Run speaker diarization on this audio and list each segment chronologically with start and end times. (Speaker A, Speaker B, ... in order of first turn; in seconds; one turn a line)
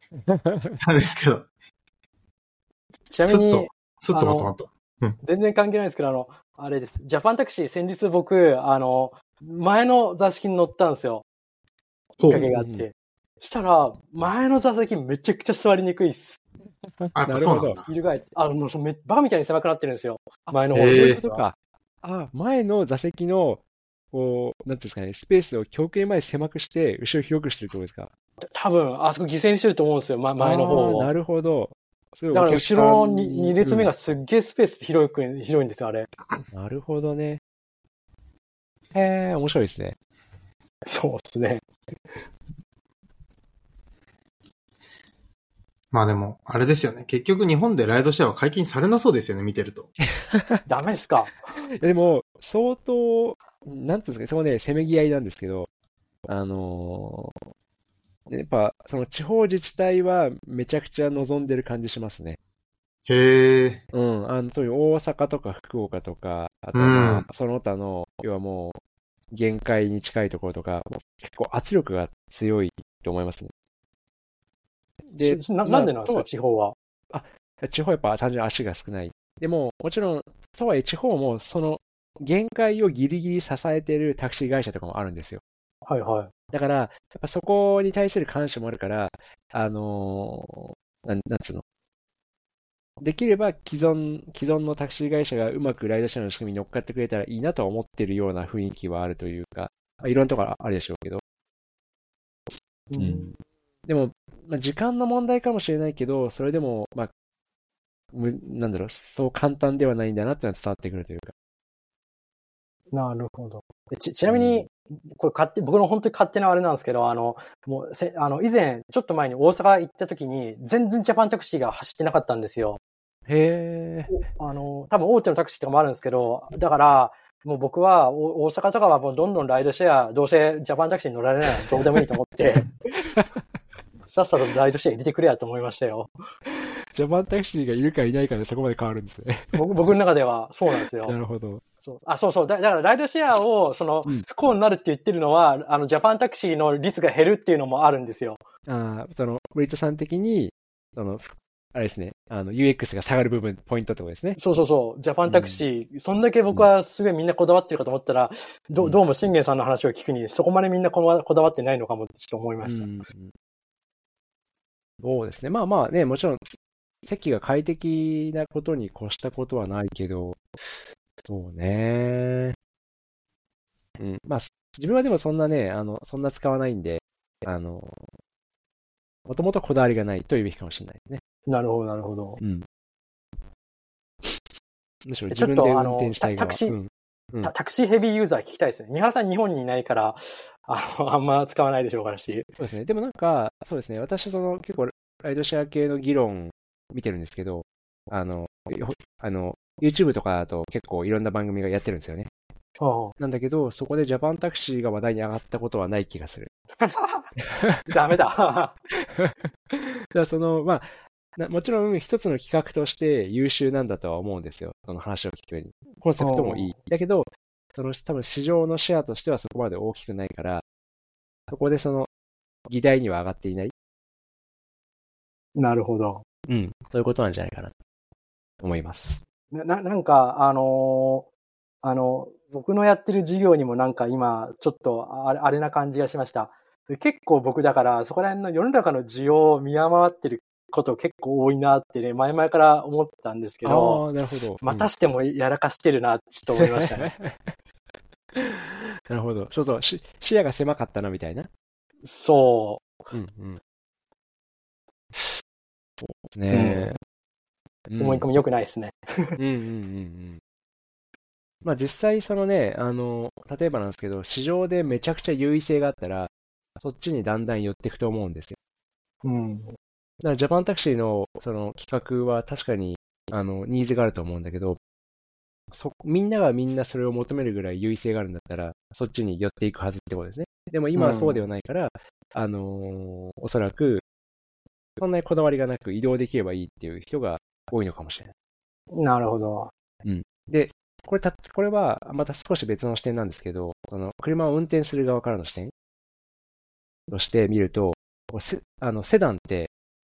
Speaker A: 0.2-0.8
Speaker B: 0.8-1.5
Speaker C: 3.1-4.5
Speaker B: 3.2-5.2
Speaker C: 5.2-11.2
Speaker B: 12.2-12.4
Speaker C: 12.2-16.4
Speaker A: 12.3-12.9
Speaker A: 17.0-17.8
Speaker B: 17.1-17.9
Speaker C: 17.9-21.4
Speaker A: 20.5-28.1
Speaker B: 20.7-21.2
Speaker C: 28.4-31.1
Speaker A: 30.4-33.9
Speaker C: 32.3-36.1
Speaker A: 36.5-37.4
Speaker A: 38.9-40.0
Speaker C: 40.9-41.6
Speaker B: 45.9-49.9
Speaker A: 50.1-50.6
Speaker C: 50.7-51.4
Speaker A: 51.8-55.7
Speaker A: 56.3-57.5
Speaker A: 58.3-62.4
Speaker B: 63.1-63.8
Speaker A: 63.9-68.8
Speaker B: 66.7-67.3
Speaker A: 69.3-73.5
Speaker A: 75.1-76.3
Speaker C: 75.2-76.8
Speaker A: 77.1-85.4
Speaker C: 85.9-86.3
Speaker A: 86.5-91.6
Speaker A: 93.0-101.2
Speaker C: 102.9-103.3
Speaker A: 103.0-103.3
Speaker A: 103.9-107.1
Speaker A: 108.1-111.3
Speaker C: 112.9-122.8
Speaker A: 114.3-114.6
Speaker A: 123.3-124.2
Speaker C: 124.4-132.8
Speaker A: 131.5-132.0
Speaker A: 133.0-133.4
Speaker C: 134.1-136.1
Speaker A: 136.5-139.6
Speaker C: 139.5-141.2
Speaker A: 141.0-141.6
Speaker C: 141.8-148.4
Speaker A: 148.7-154.4
Speaker C: 154.4-162.9
Speaker A: 155.3-155.6
Speaker A: 162.6-163.3
Speaker A: 165.0-166.5
Speaker A: 167.1-172.6
Speaker A: 174.0-178.1
Speaker A: 179.3-181.2
Speaker C: 181.5-182.4
Speaker A: 182.4-182.7
Speaker A: 185.1-187.5
Speaker C: 185.3-186.8
Speaker C: 187.4-192.5
Speaker A: 192.6-202.3
Speaker C: 202.8-203.2
Speaker A: 203.2-206.5
Speaker C: 206.8-207.3
Speaker A: 207.4-207.9
Speaker C: 207.9-208.8
Speaker A: 208.9-220.6
Speaker C: 216.2-216.7
Speaker A: 221.5-222.1
Speaker A: 222.7-223.7
Speaker C: 225.6-226.2
Speaker A: 226.5-227.7
Speaker A: 228.6-229.2
Speaker C: 229.5-231.3
Speaker C: 231.8-244.0
Speaker A: 243.6-244.9
Speaker C: 244.6-247.1
Speaker A: 246.6-247.5
Speaker A: 248.3-251.5
Speaker C: 252.1-252.8
Speaker A: 253.1-253.6
Speaker A: 256.0-256.9
Speaker C: 256.5-257.0
Speaker A: 257.9-258.3
Speaker C: 258.0-259.4
Speaker A: 259.4-260.4
Speaker A: 261.6-268.6
Speaker C: 269.2-269.8
Speaker A: 270.2-274.8
Speaker A: 275.7-284.0
Speaker C: 280.9-281.4
Speaker A: 285.0-288.3
Speaker C: 288.9-289.7
Speaker A: 290.0-295.7
Speaker A: 297.1-299.7